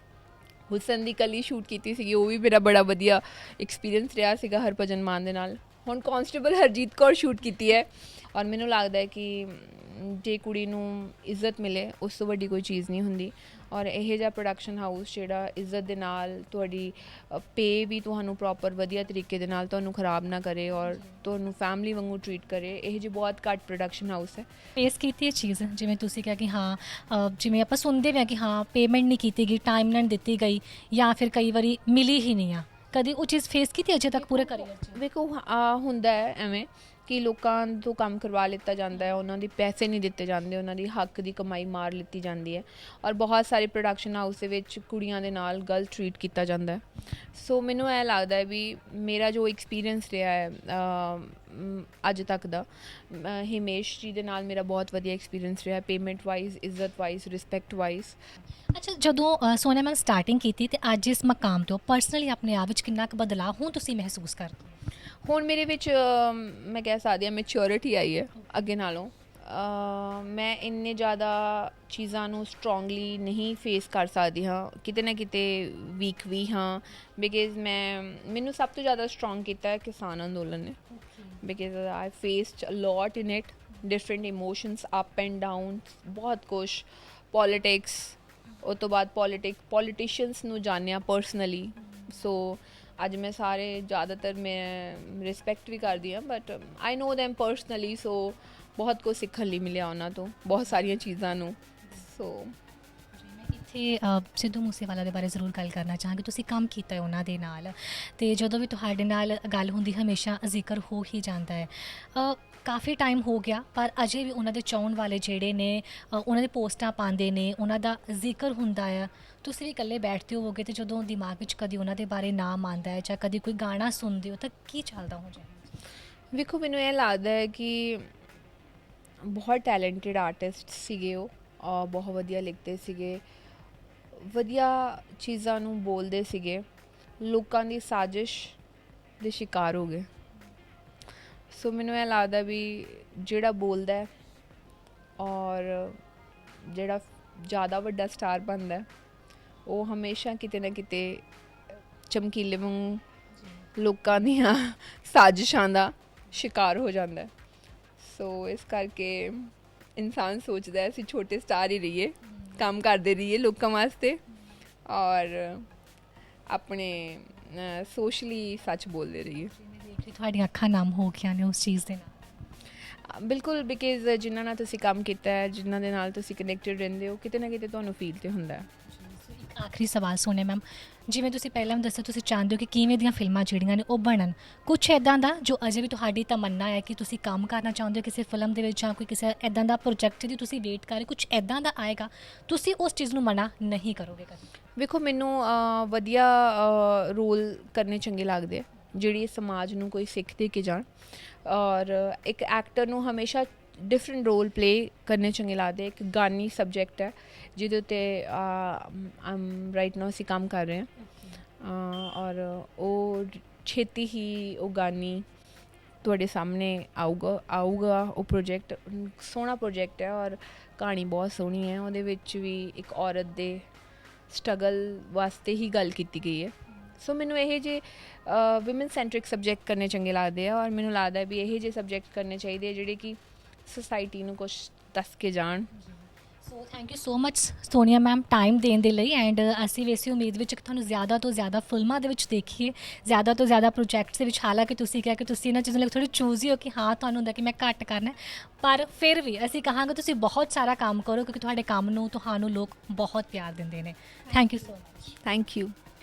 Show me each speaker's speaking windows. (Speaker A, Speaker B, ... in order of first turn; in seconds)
Speaker A: 0.7-24.5, 34.1-58.2, 65.2-80.8, 81.4-102.6, 126.3-128.1, 129.2-133.2, 134.2-136.6, 137.2-138.6, 139.2-140.1, 141.5-144.1, 145.2-146.0, 146.6-148.9, 149.7-151.2, 152.1-153.0, 153.7-157.3, 158.0-164.2, 164.9-165.7, 166.5-169.5, 173.1-178.7, 194.8-200.9, 201.4-210.9, 211.6-215.2, 216.0-223.7, 224.3-235.7, 255.2-255.7
Speaker B: 24.8-35.0, 58.7-64.8, 80.9-81.4, 103.1-125.7, 153.4-153.6, 169.6-172.2, 178.9-194.5, 211.0-211.4, 235.7-255.2